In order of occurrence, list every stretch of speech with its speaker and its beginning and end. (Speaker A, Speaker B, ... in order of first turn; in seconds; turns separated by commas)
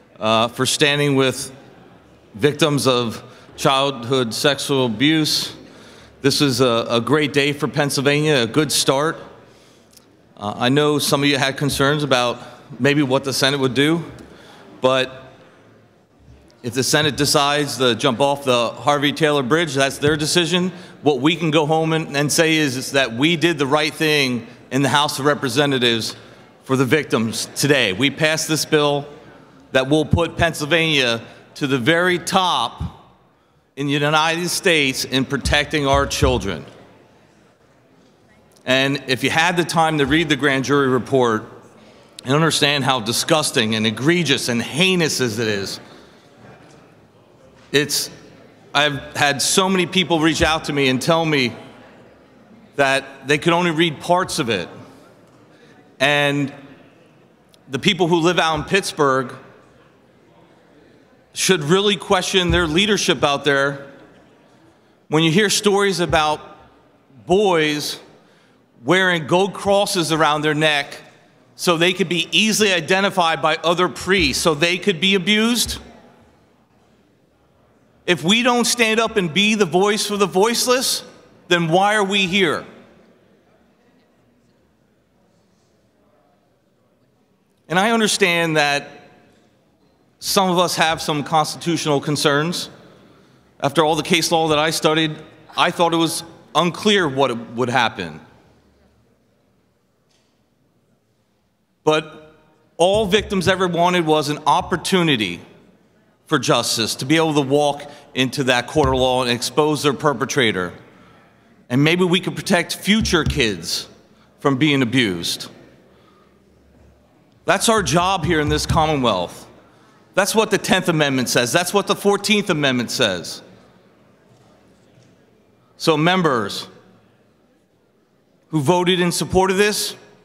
Speaker A: 0.2-1.5, Speaker A: 2.3-5.5, Speaker A: 6.2-9.2, Speaker A: 10.4-14.1, Speaker A: 14.8-15.3, Speaker A: 16.6-29.1, Speaker A: 29.7-33.0, Speaker A: 33.8-36.6, Speaker A: 38.6-41.5, Speaker A: 42.3-45.8, Speaker A: 47.7-48.1, Speaker A: 48.7-51.5, Speaker A: 52.8-54.7, Speaker A: 56.0-56.5, Speaker A: 57.7-59.4, Speaker A: 61.3-63.8, Speaker A: 65.1-66.5, Speaker A: 67.2-68.0, Speaker A: 68.8-71.0, Speaker A: 71.6-75.8, Speaker A: 78.0-82.6, Speaker A: 87.7-89.0, Speaker A: 90.2-92.7, Speaker A: 93.6-98.2, Speaker A: 101.8-105.4, Speaker A: 106.3-110.7, Speaker A: 111.7-113.9, Speaker A: 114.4-115.5, Speaker A: 117.5-119.5, Speaker A: 120.1-123.4, Speaker A: 125.8-126.7, Speaker A: 128.5-129.9